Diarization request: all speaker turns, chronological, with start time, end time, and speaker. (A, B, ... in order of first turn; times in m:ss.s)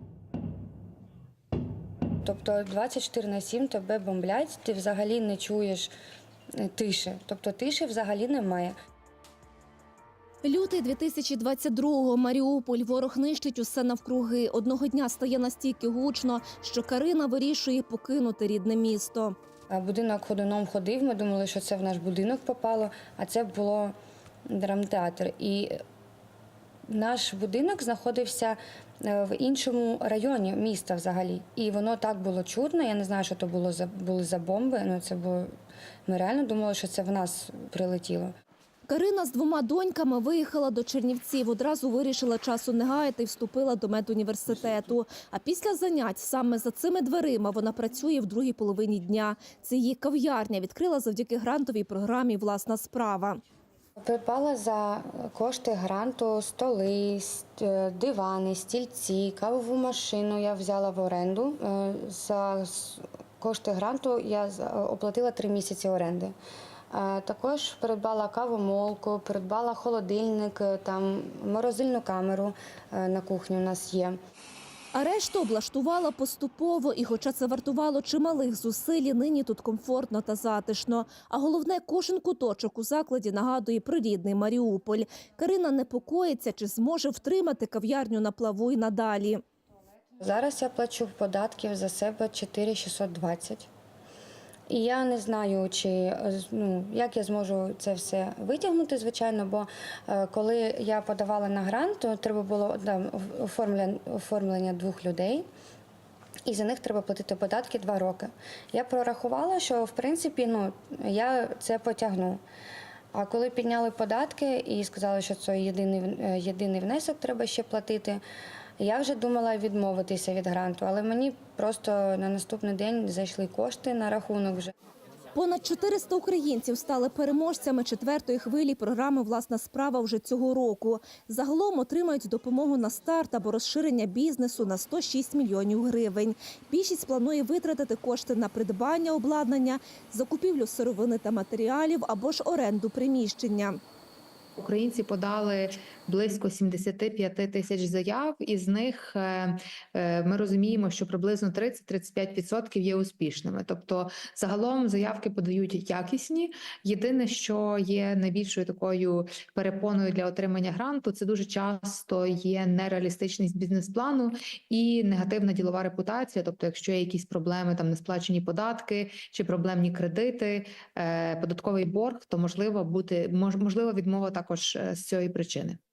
0:02.2-0:05.9 A
0:06.6-0:08.8 A
0:10.4-0:19.4 B
0:19.7-0:24.0 A
0:24.5-0:25.8 A
0:26.9-0:35.5 A
0:36.1-0:38.3 A
0:38.9-0:53.4 B
0:54.0-1:06.3 A
1:06.9-1:14.2 A
1:14.9-1:29.4 B
1:30.2-1:33.7 A
1:34.7-1:45.5 A
1:46.4-1:52.4 A
1:53.1-1:58.2 A
1:58.8-2:04.7 A
2:05.3-2:23.8 B
2:24.6-2:55.8 C